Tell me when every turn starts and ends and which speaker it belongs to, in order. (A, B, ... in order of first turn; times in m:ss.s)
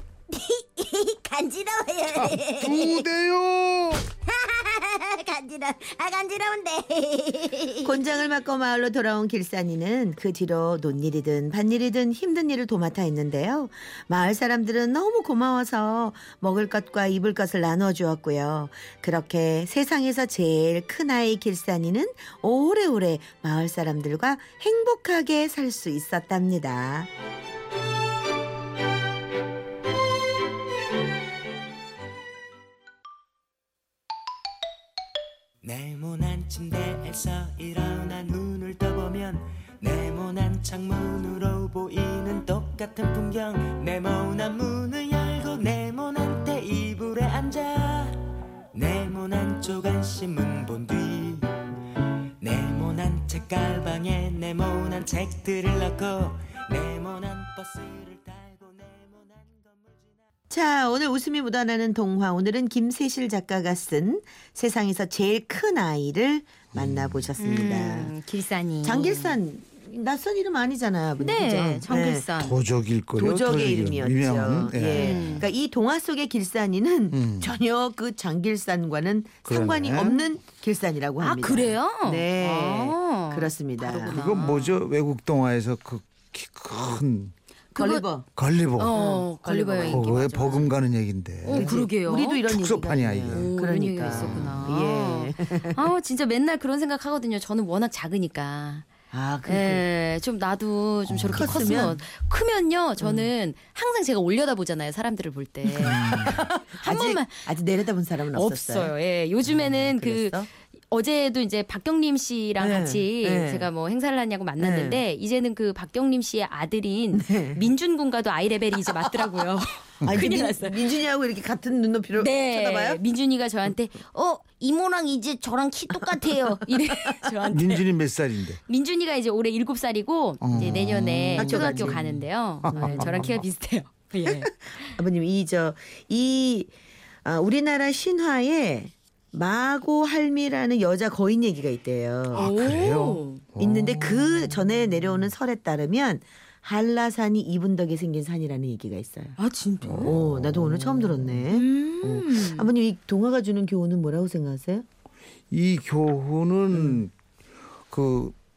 0:00.4-0:03.0 A
0:02.1-0:04.0 B
0:04.3-0:07.3 A
0:06.2-0:07.5 C
0:07.8-0:27.1 D
0:35.6-0:51.6 E
0:52.4-1:00.1 E
1:00.5-1:08.1 D
1:06.7-1:07.2 B
1:07.4-1:09.4 C
1:08.8-1:12.3 D
1:11.2-1:12.6 C
1:12.3-1:15.4 B
1:13.1-1:24.2 D
1:15.0-1:15.4 C
1:17.1-1:17.5 B
1:19.4-1:20.2 B
1:21.2-1:24.8 C
1:24.1-1:27.3 B
1:27.7-1:28.3 D
1:27.8-1:28.0 C
1:28.3-1:28.9 B
1:28.8-1:30.7 C
1:28.9-1:30.5 D
1:29.8-1:31.7 B
1:31.4-1:32.4 C
1:31.5-1:35.8 D
1:32.4-1:33.5 B
1:33.3-1:38.9 C
1:34.0-1:34.6 B
1:39.1-1:39.9 D
1:39.4-1:47.4 C
1:41.1-1:41.7 B
1:41.3-1:42.0 D
1:43.0-1:43.3 D
1:45.7-1:50.5 D
1:46.0-1:46.3 B
1:48.3-2:00.9 C
1:52.6-1:53.7 D
1:54.6-1:55.0 D
1:57.1-1:57.7 D
2:00.0-2:03.0 D
2:02.2-2:07.8 C
2:07.5-2:08.6 B
2:08.6-2:14.9 C
2:10.4-2:13.4 B
2:11.3-2:12.0 D
2:12.7-2:13.1 D
2:14.3-2:16.7 D
2:17.2-2:22.5 D
2:22.3-2:23.4 C
2:22.3-2:24.3 B
2:23.6-2:29.4 D
2:29.4-2:30.2 C
2:29.8-2:30.6 B
2:30.0-2:34.8 D
2:30.8-2:32.7 C
2:35.5-2:37.1 B
2:37.9-2:38.3 B